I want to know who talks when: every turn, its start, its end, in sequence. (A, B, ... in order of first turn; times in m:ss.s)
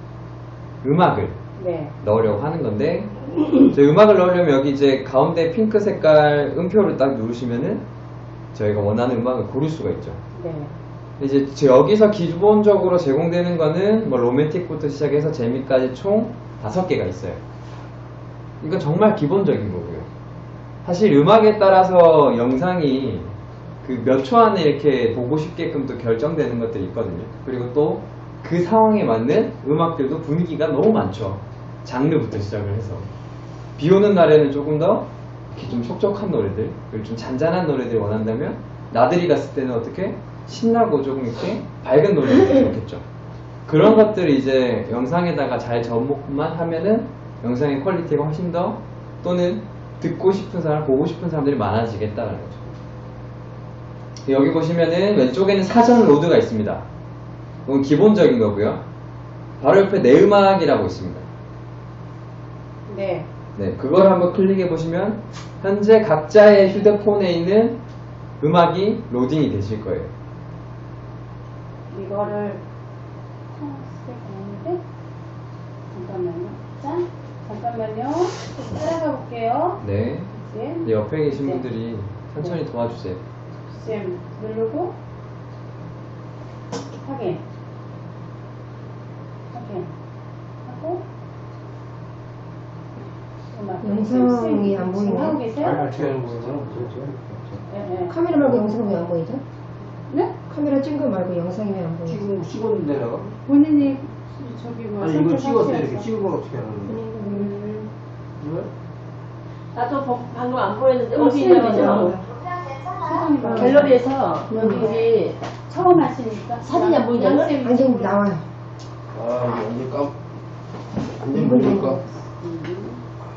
0:00.8-0:01.4 A
0:01.6-0:01.9 B
0:02.0-0:07.8 A
0:08.5-0:10.2 A
0:10.4-0:10.7 B
0:11.2-0:17.4 A
0:18.6-0:20.1 A
0:20.8-0:33.1 A
0:33.8-0:43.0 A
0:43.7-0:52.7 A
0:54.2-0:56.8 A
0:57.7-0:58.8 A
0:59.6-1:01.3 A
1:02.9-1:03.3 B
1:03.6-1:07.8 A
1:08.4-1:10.1 A
1:11.9-1:12.6 B
1:13.5-1:14.8 B
1:15.9-1:21.6 B
1:19.8-1:20.3 A
1:20.8-1:23.2 A
1:23.7-1:24.9 B
1:27.0-1:27.4 B
1:29.5-1:29.9 B
1:30.6-1:31.0 B
1:33.5-1:35.9 B
1:33.8-1:35.4 C
1:35.5-1:37.6 D
1:37.7-1:38.2 B
1:38.1-1:39.4 C
1:38.4-1:38.7 D
1:40.1-1:40.3 B
1:40.5-1:42.2 C
1:42.1-1:43.4 D
1:43.4-1:46.1 B
1:45.0-1:47.0 D
1:46.9-1:47.6 C
1:47.1-1:47.9 B
1:48.4-1:48.7 D
1:49.7-1:52.2 E
1:51.2-1:54.0 B
1:51.5-1:52.2 C
1:53.1-1:53.9 C
1:53.5-1:55.4 E
1:54.5-1:55.1 C
1:54.5-1:55.1 B
1:55.7-1:58.2 B
1:56.6-1:57.5 E
1:57.6-1:58.4 C
1:59.1-2:00.2 D
2:01.1-2:02.0 D
2:01.3-2:02.0 C
2:01.4-2:03.0 B